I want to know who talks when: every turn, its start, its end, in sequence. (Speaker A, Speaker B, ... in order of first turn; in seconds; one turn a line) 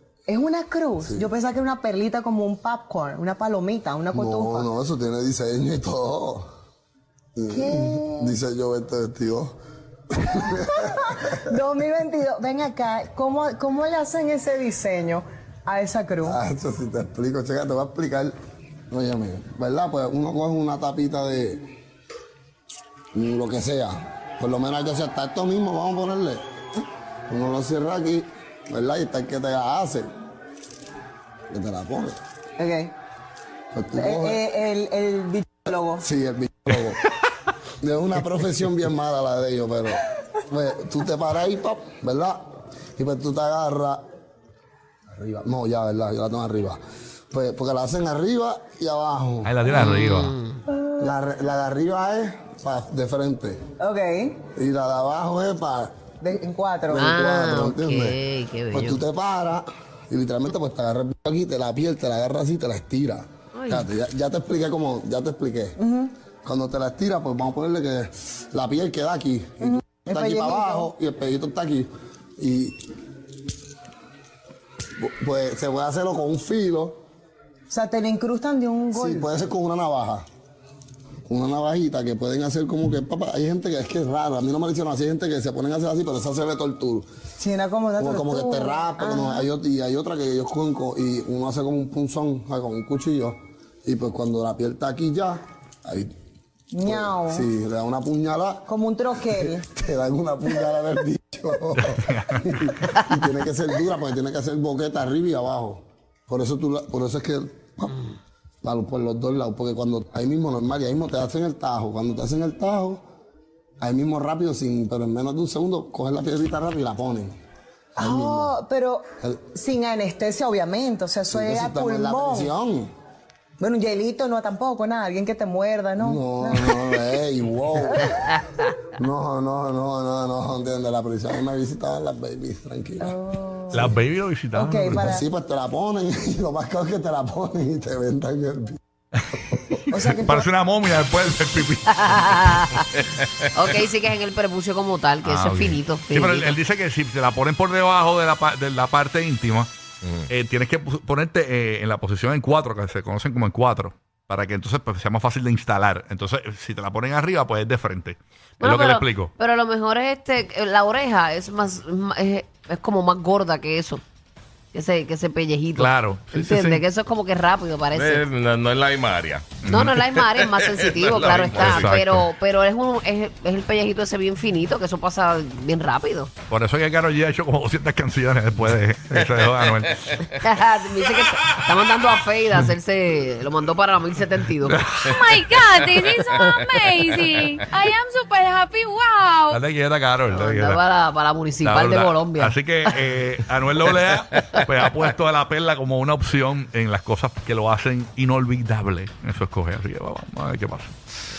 Speaker A: 0.3-4.7
Speaker B: 4.1-6.5
Speaker B: 7.3-9.6
Speaker A: 7.5-8.3
Speaker B: 10.1-11.4
Speaker A: 10.5-16.4
Speaker B: 16.2-18.4
Speaker B: 18.9-21.7
Speaker B: 23.1-30.1
Speaker B: 31.5-32.2
Speaker A: 32.6-32.9
Speaker B: 33.7-34.4
Speaker A: 33.9-36.0
Speaker B: 36.0-37.0
Speaker B: 37.8-44.0
Speaker B: 45.1-49.5
Speaker C: 49.4-50.3
Speaker D: 49.6-50.6
Speaker A: 50.7-51.1
Speaker B: 51.0-53.6
Speaker A: 53.8-54.4
Speaker B: 54.5-56.0
Speaker A: 56.2-57.1
Speaker B: 56.9-58.2
Speaker D: 56.9-59.0
Speaker B: 58.7-65.8
Speaker D: 63.5-63.9
Speaker A: 65.8-66.1
Speaker B: 66.4-72.9
Speaker A: 69.6-70.9
Speaker B: 75.0-77.0
Speaker A: 77.7-79.3
Speaker B: 78.9-80.3
Speaker B: 81.3-87.1
Speaker A: 87.4-89.5
Speaker B: 88.0-96.1
Speaker A: 96.7-97.5
Speaker B: 96.8-98.7
Speaker A: 98.7-99.6
Speaker B: 99.2-108.0
Speaker C: 101.8-102.8
Speaker B: 108.6-113.0
Speaker B: 113.8-117.4
Speaker B: 118.0-118.5
Speaker A: 118.0-122.5
Speaker B: 121.3-122.9
Speaker A: 123.6-127.0
Speaker B: 126.0-128.3
Speaker A: 127.8-128.2
Speaker D: 128.3-128.7
Speaker B: 128.9-133.2
Speaker A: 133.0-134.0
Speaker C: 133.7-135.0
Speaker A: 134.5-135.2
Speaker B: 134.9-138.8
Speaker C: 139.2-142.6
Speaker A: 139.9-140.5
Speaker D: 141.9-142.8
Speaker D: 143.5-146.6
Speaker C: 145.2-149.7
Speaker E: 150.0-150.3
Speaker C: 150.3-159.3
Speaker D: 158.6-164.0
Speaker D: 164.7-168.2
Speaker C: 165.8-166.8
Speaker E: 167.9-169.6
Speaker C: 169.6-170.0
Speaker D: 169.7-176.3
Speaker E: 170.2-171.9
Speaker C: 171.3-172.2
Speaker C: 176.5-180.2
Speaker E: 179.1-180.2
Speaker D: 180.3-184.8
Speaker C: 184.6-185.2
Speaker F: 185.1-189.6
Speaker C: 189.5-190.8
Speaker D: 190.3-193.0
Speaker C: 191.6-201.0